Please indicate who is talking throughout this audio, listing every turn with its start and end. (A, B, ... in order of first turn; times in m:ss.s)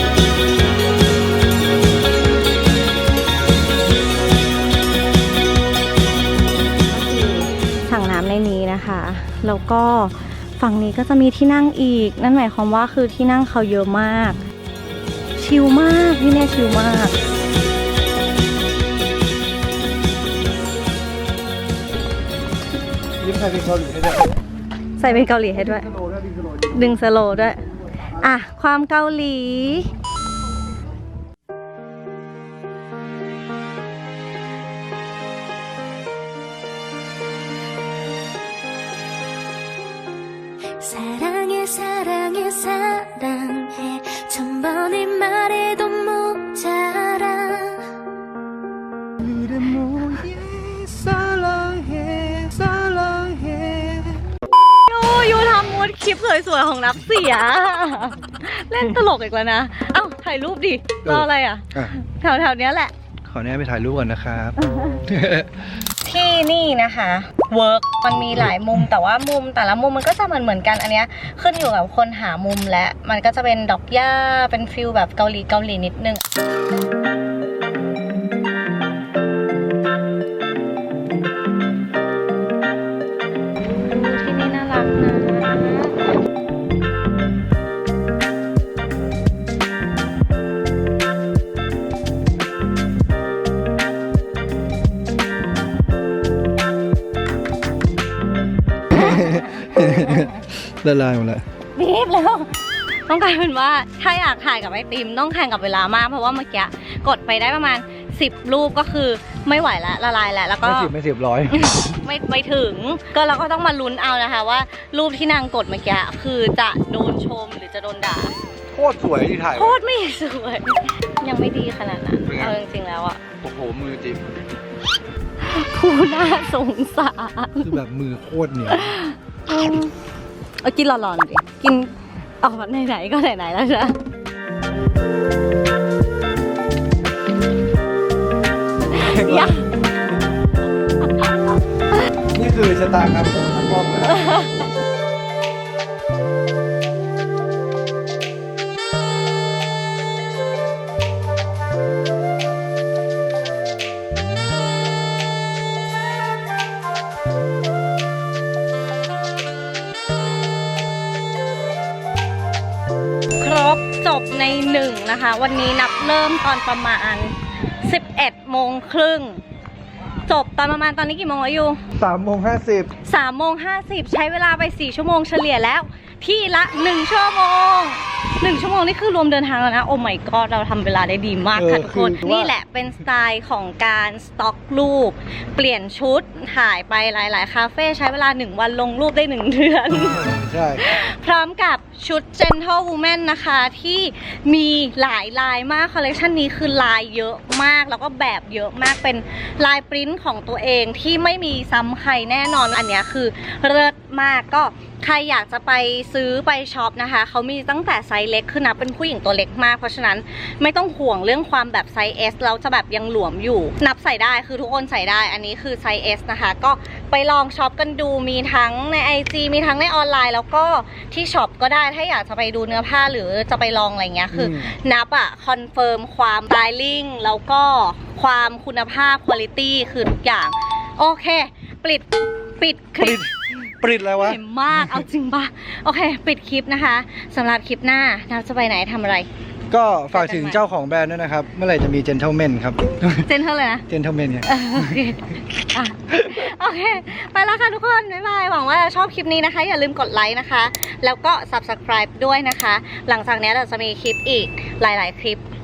0:06.9-0:14.4 A
0:15.4-0:17.2 A
0:23.2-0:24.2 B
0:25.0-0:25.9 A
0:26.7-0:29.9 A
0:40.8-0:47.9 C
0:49.2-0:54.2 B
0:54.8-1:02.9 A
1:01.0-1:01.9 B
1:03.2-1:05.6 B
1:04.6-1:05.0 A
1:06.0-1:16.2 A
1:23.9-1:26.1 A
1:38.9-1:41.4 B
1:38.9-1:40.3 A
1:41.8-1:50.9 A
1:50.6-1:51.8 B
1:51.5-1:58.4 A
1:58.7-1:59.7 B
1:59.5-2:03.2 A
2:02.3-2:02.6 B
2:03.4-2:04.2 B
2:05.4-2:07.8 A
2:07.6-2:09.0 B
2:08.7-2:09.9 A
2:10.6-2:14.0 A
2:18.9-2:19.9 A
2:18.9-2:19.8 B
2:21.0-2:21.3 A
2:22.3-2:24.2 B
2:24.1-2:24.6 A
2:43.4-2:49.4 A
2:50.3-2:51.8 A
2:52.0-2:52.9 B
2:53.0-3:59.3 A
3:01.6-3:02.5 B
3:10.1-3:10.9 B
3:44.3-3:44.7 B
3:53.0-3:54.4 B
3:59.7-4:03.3 B
4:00.1-4:00.6 A
4:03.2-4:03.9 A
4:03.9-4:05.0 B
4:04.5-4:15.4 A